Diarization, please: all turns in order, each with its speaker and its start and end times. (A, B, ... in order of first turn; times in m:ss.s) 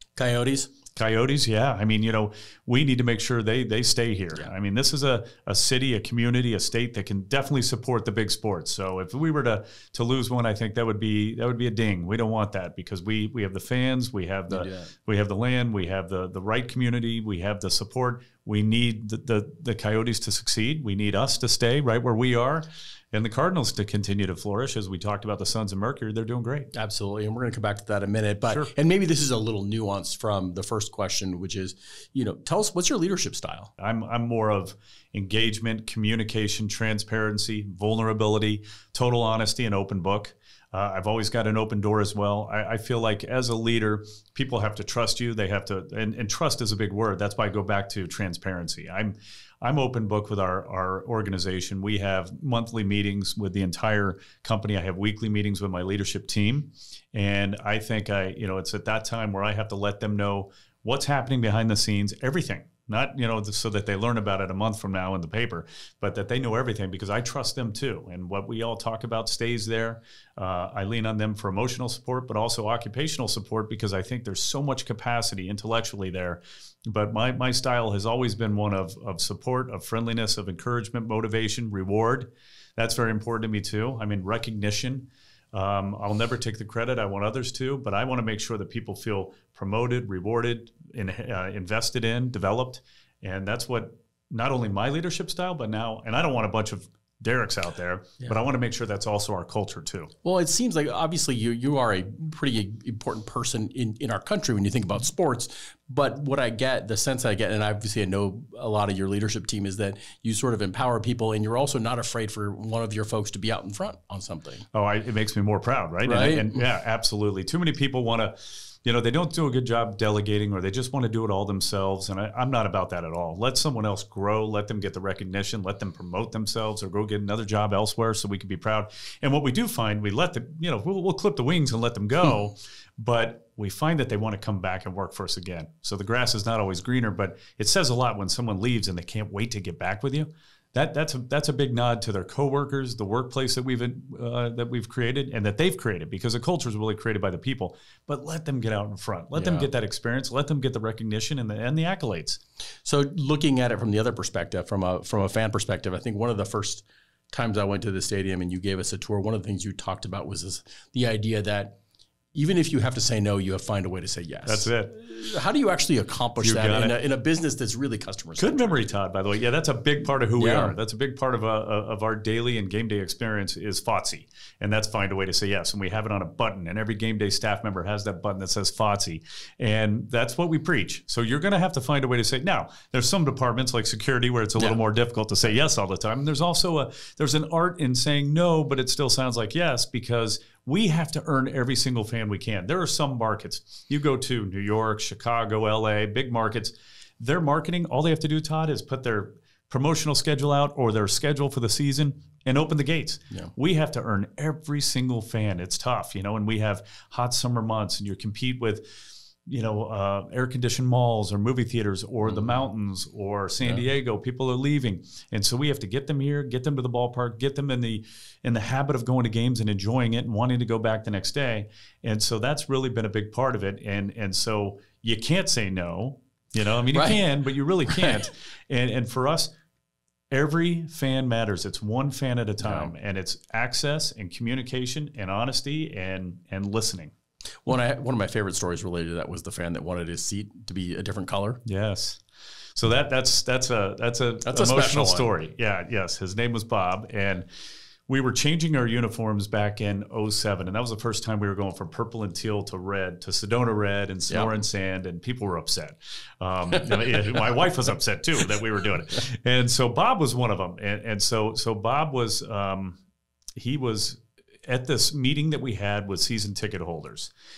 0:00.2-0:00.7 A
0:00.9-0:26.7 B
0:14.5-0:14.9 A
0:26.7-0:33.7 A
0:33.8-1:40.1 B
1:40.2-1:54.6 A
1:54.7-2:32.4 B
1:56.0-1:56.6 A
2:29.3-2:29.7 A
2:32.8-2:41.8 A
2:42.3-2:48.8 A
2:44.4-2:44.9 B
2:46.4-2:46.9 B
2:48.4-3:28.9 B
2:50.4-2:50.7 A
3:29.4-3:49.5 B
3:32.3-3:32.6 A
3:46.9-3:47.2 A
3:50.3-3:57.1 B
3:52.6-3:52.9 A
3:57.6-4:01.6 A
4:01.6-4:02.2 B
4:02.8-4:07.5 B
4:04.4-4:05.3 A
4:08.1-4:23.0 B
4:16.8-4:17.4 A
4:23.6-4:27.3 B